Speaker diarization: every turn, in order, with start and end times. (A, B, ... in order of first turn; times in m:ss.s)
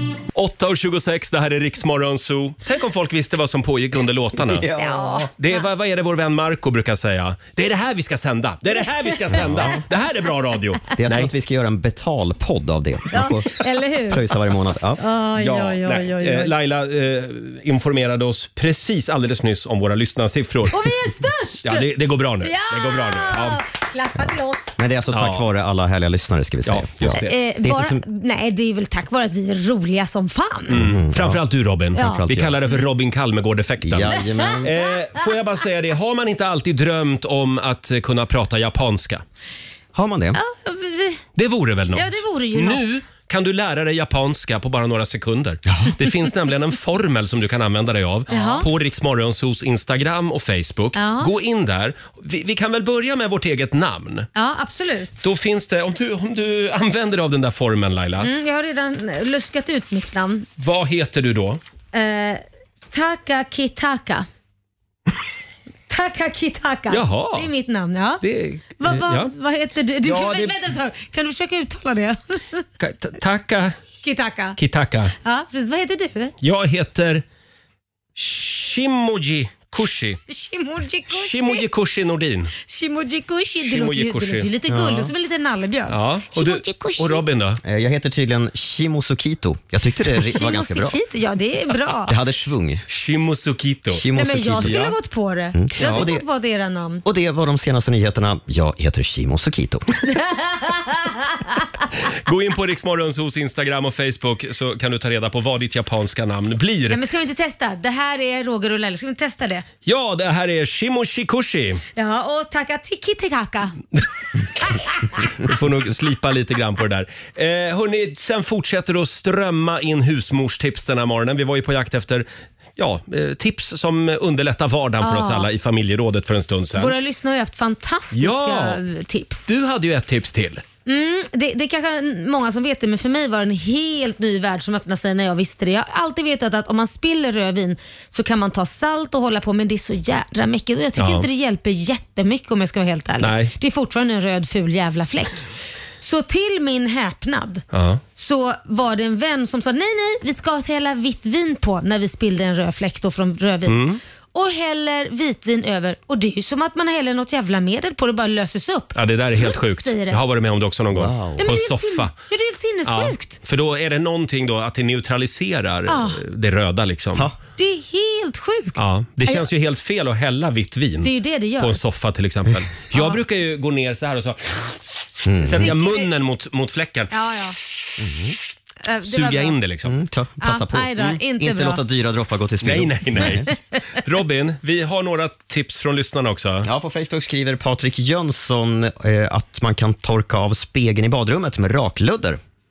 0:00.3-0:04.6 A
0:04.5-0:05.3 B
0:04.8-0:05.6 C
0:05.4-0:11.3 A
0:08.7-0:09.1 C
0:09.3-0:09.8 B
0:11.0-0:13.5 B
0:13.1-0:14.3 C
0:14.1-0:15.0 B
0:15.0-0:16.5 C
0:15.4-0:20.8 A
0:20.7-0:21.8 C
0:21.6-0:23.6 A
0:22.4-0:24.8 C
0:24.8-0:28.0 B
0:25.1-0:25.4 A
0:26.6-0:27.3 A
0:27.1-0:30.8 C
0:30.7-0:31.4 B
0:30.7-0:39.2 A
0:31.9-0:32.6 B
0:31.9-0:32.7 C
0:33.8-0:34.7 B
0:39.9-0:40.4 B
0:40.3-0:41.2 C
0:41.4-0:54.3 A
0:41.9-0:42.8 C
0:48.3-0:48.7 C
0:50.9-0:51.3 C
0:54.3-0:55.2 C
0:55.2-0:58.3 A
0:58.2-1:00.5 C
1:00.6-1:01.6 A
1:01.9-1:04.3 C
1:05.9-1:08.2 C
1:06.9-1:07.5 A
1:08.2-1:09.3 A
1:08.8-1:12.6 C
1:10.0-1:10.6 A
1:12.8-1:13.8 A
1:14.0-1:14.6 C
1:14.6-1:15.1 A
1:15.2-1:16.3 C
1:16.4-1:17.2 A
1:18.2-1:20.2 A
1:20.3-1:21.6 C
1:21.1-1:22.5 A
1:22.6-1:27.2 C
1:23.6-1:24.9 A
1:25.9-1:27.6 A
1:27.6-1:31.0 B
1:30.3-1:32.1 C
1:32.1-1:32.8 B
1:32.9-1:34.0 A
1:33.9-1:34.9 B
1:34.1-1:37.0 C
1:34.6-1:34.9 A
1:35.5-1:36.2 B
1:35.8-1:36.1 A
1:37.0-1:39.8 B
1:40.3-1:41.2 C
1:42.0-1:47.0 A
1:46.9-1:49.6 C
1:49.8-1:51.8 A
1:52.0-1:53.8 C
1:55.4-2:06.9 A
2:05.0-2:05.5 C
2:06.7-2:09.5 C
2:08.1-2:08.8 A
2:09.5-2:10.6 A
2:10.8-2:25.5 C
2:21.0-2:21.3 A
2:23.2-2:23.5 A
2:26.0-2:27.6 C
2:27.7-2:28.0 A
2:28.2-2:33.8 C
2:33.7-2:34.0 A
2:34.3-2:40.2 C
2:38.9-2:42.1 A
2:40.9-2:41.6 B
2:41.4-2:43.4 C
2:42.8-2:47.3 A
2:45.9-2:46.2 C
2:47.6-2:49.4 C
2:48.8-2:58.4 A
2:51.0-2:51.8 C
2:52.9-2:53.2 C
2:55.2-2:55.7 B
2:55.6-2:56.0 C
2:57.1-2:57.6 C
2:58.0-2:58.4 B
2:58.8-2:59.5 C
2:59.0-2:59.9 A
2:59.8-3:03.4 B
3:00.4-3:01.8 C
3:02.6-3:06.7 A
3:03.4-3:03.8 C
3:06.6-3:12.4 B